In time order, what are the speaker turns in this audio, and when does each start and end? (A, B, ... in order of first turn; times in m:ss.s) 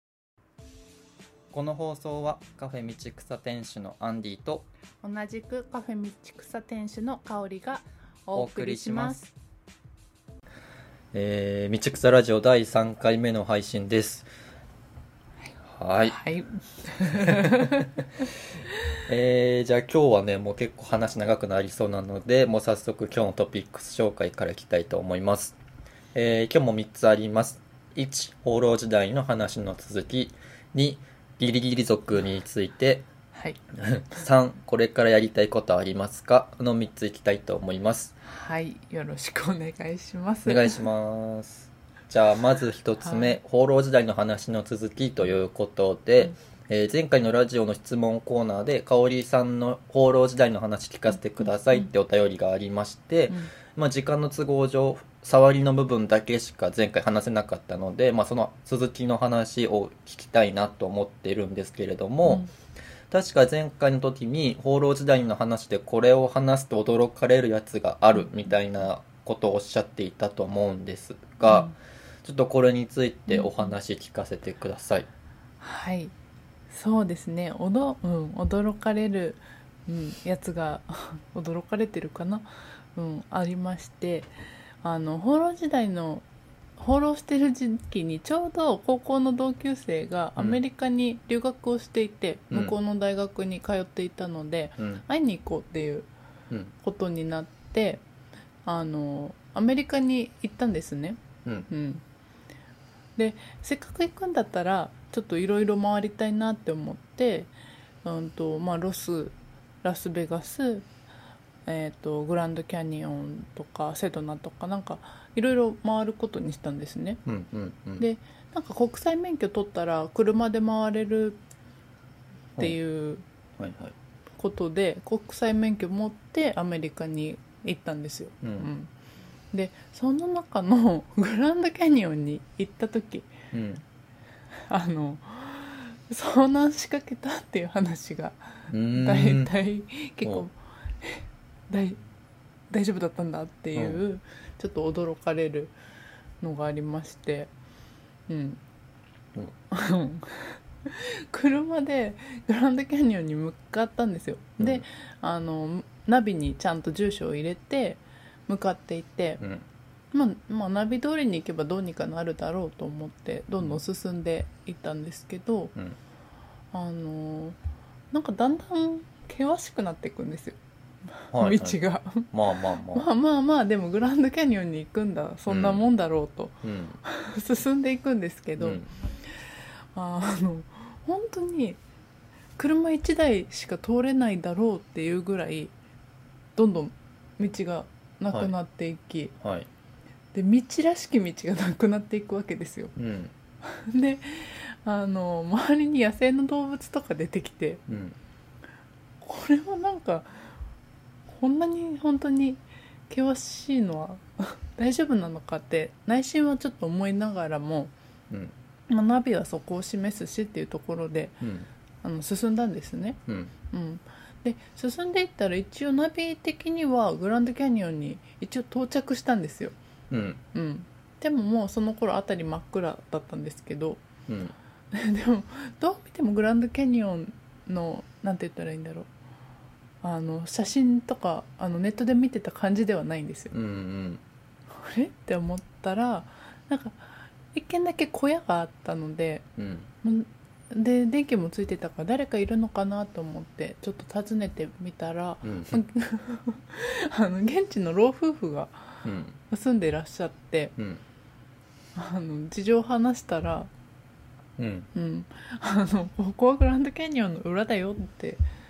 0:01.5-0:04.7 A
0:05.0-0:09.3 B
0:08.4-0:09.2 A
0:11.1-0:14.3 A
0:15.7-0:16.2 A
0:16.0-0:17.9 B
0:17.2-0:17.9 A
0:19.0-0:25.6 A
0:26.1-0:33.0 A
0:33.8-0:38.1 A
0:38.2-0:40.8 B
0:40.5-1:02.5 A
0:43.0-0:43.4 B
1:02.2-1:02.5 B
1:03.1-1:15.1 A
1:11.4-1:11.7 B
1:13.3-1:13.5 B
1:15.6-1:16.1 B
1:16.7-1:24.3 B
1:24.8-1:26.2 B
1:26.8-1:36.1 B
1:36.8-1:38.0 B
1:38.6-1:42.0 B
1:43.2-1:47.5 B
1:48.0-1:50.9 B
1:51.7-1:57.2 B
1:57.3-1:58.0 A
1:58.0-2:01.4 B
2:02.6-2:03.2 B
2:03.6-2:03.9 A
2:04.4-2:08.9 B
2:08.4-2:08.7 A
2:09.5-2:13.3 B
2:13.5-2:13.8 A
2:14.7-2:22.0 B
2:18.7-2:19.5 A
2:22.7-2:25.7 B
2:23.8-2:24.0 A
2:26.4-2:27.5 B
2:28.3-2:28.6 B
2:29.7-2:39.4 B
2:39.4-2:39.6 A
2:40.1-2:45.7 B
2:46.7-2:47.6 B
2:48.1-2:50.6 B
2:51.2-2:52.3 B
2:51.3-2:53.1 A
2:52.9-2:58.8 B
2:55.5-2:55.8 A
2:56.6-2:57.0 A
2:58.6-2:58.9 A
2:59.9-3:01.8 B
3:02.6-3:05.7 B
3:06.6-3:09.4 B
3:09.4-3:09.7 A
3:10.3-3:12.9 B
3:13.0-3:13.3 A
3:13.6-3:17.8 B
3:17.9-3:18.2 A
3:19.2-3:20.5 B
3:21.3-3:27.9 B
3:28.9-3:31.4 B
3:31.4-3:31.7 A
3:32.0-3:33.2 B
3:33.3-3:33.5 A
3:33.7-3:39.8 B
3:40.1-3:40.4 A
3:40.5-3:44.0 B
3:44.3-3:44.5 A
3:44.9-3:49.1 B
3:50.0-3:53.5 B
3:53.5-3:54.2 A
3:54.7-3:59.5 B
3:59.6-3:59.9 A
4:00.0-4:10.7 B
4:05.4-4:05.8 A
4:09.0-4:09.4 A
4:10.8-4:11.0 A
4:12.0-4:13.7 B
4:14.6-4:14.9 A
4:14.9-4:18.4 B